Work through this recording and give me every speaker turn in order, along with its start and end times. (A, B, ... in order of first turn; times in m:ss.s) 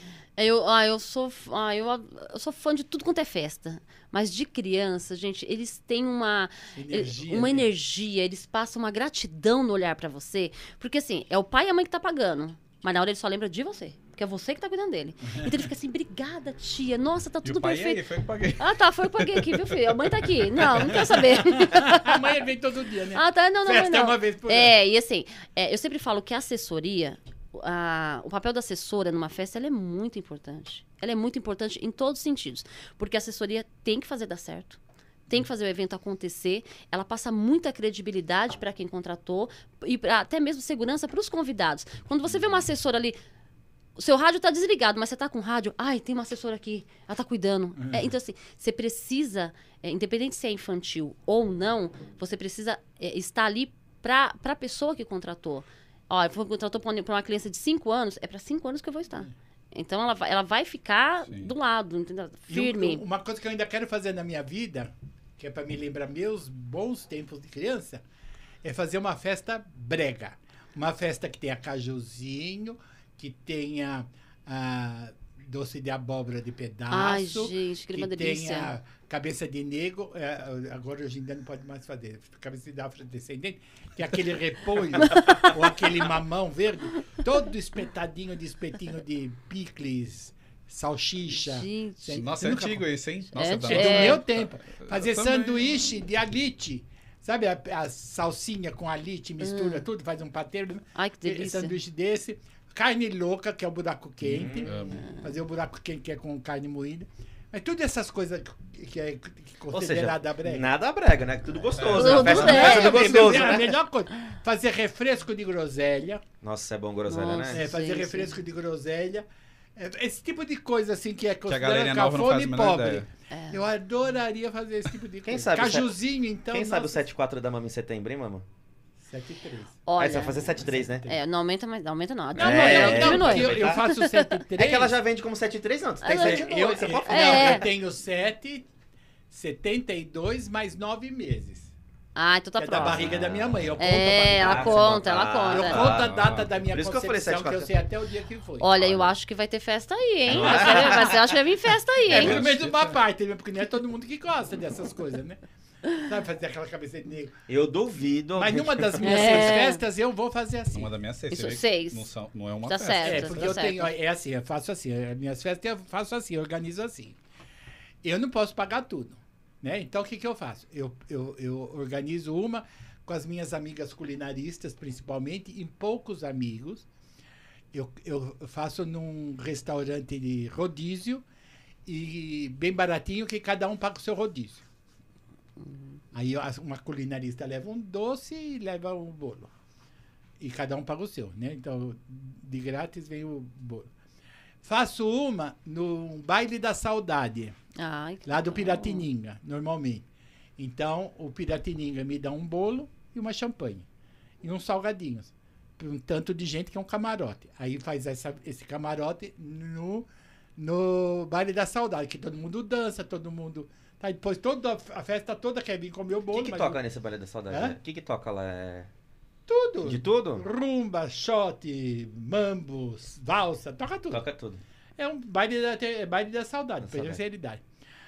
0:00.4-0:18.0 A
0:06.7-0:07.6 B
0:15.3-0:15.6 B
0:17.4-0:21.4 C
0:18.6-0:22.4 A
0:21.4-0:24.7 B
0:23.1-0:43.2 A
0:44.0-1:03.0 A
0:47.8-0:48.1 B
1:01.3-1:01.5 C
1:02.5-1:08.0 B
1:08.6-1:32.9 B
1:16.9-1:18.7 A
1:31.3-1:32.2 A
1:32.1-1:35.7 C
1:33.3-1:34.2 A
1:33.6-1:50.6 B
1:39.4-1:39.8 A
1:40.9-1:41.8 A
1:44.2-1:44.8 D
1:44.7-1:45.1 C
1:49.7-1:53.8 D
1:51.7-1:52.9 C
1:51.9-1:53.5 A
1:52.2-1:56.2 B
1:56.4-1:57.6 D
1:57.1-1:58.4 A
1:57.5-2:07.1 B
2:01.4-2:03.1 C
2:03.3-2:03.6 A
2:05.2-2:08.4 D
2:09.0-2:09.8 B
2:09.8-2:14.4 A
2:10.0-2:11.1 D
2:12.4-2:13.9 D
2:12.4-2:15.0 B
2:14.5-2:17.7 D
2:16.0-2:17.7 A
2:16.1-2:18.7 B
2:19.3-2:21.7 B
2:22.1-2:23.1 A
2:22.6-2:28.7 B
2:22.8-2:23.7 D
2:23.8-2:25.8 A
2:24.3-2:27.7 D
2:25.8-2:26.5 C
2:28.6-2:32.4 A
2:28.8-2:29.1 D
2:30.3-2:31.3 D
2:30.3-2:31.1 B
2:32.1-2:37.3 B
2:32.1-2:33.0 C
2:37.5-2:39.5 D
2:38.4-2:40.9 B
2:39.0-2:39.8 A
2:40.7-2:43.6 C
2:41.3-2:42.1 A
2:42.6-2:43.9 A
2:43.0-2:47.2 B
2:48.0-2:56.9 B
2:57.7-3:01.2 B
3:01.8-3:04.6 B
3:06.1-3:09.5 B
3:10.4-3:13.9 B
3:14.6-3:17.5 B
3:17.8-3:19.1 A
3:18.2-3:20.0 B
3:20.6-3:23.8 B
3:24.4-3:36.8 B
3:36.3-3:38.9 D
3:37.5-3:37.8 B
3:39.5-3:44.2 B
3:39.8-3:40.4 D
3:44.1-3:44.6 D
3:45.0-3:47.6 B
3:46.8-3:47.2 D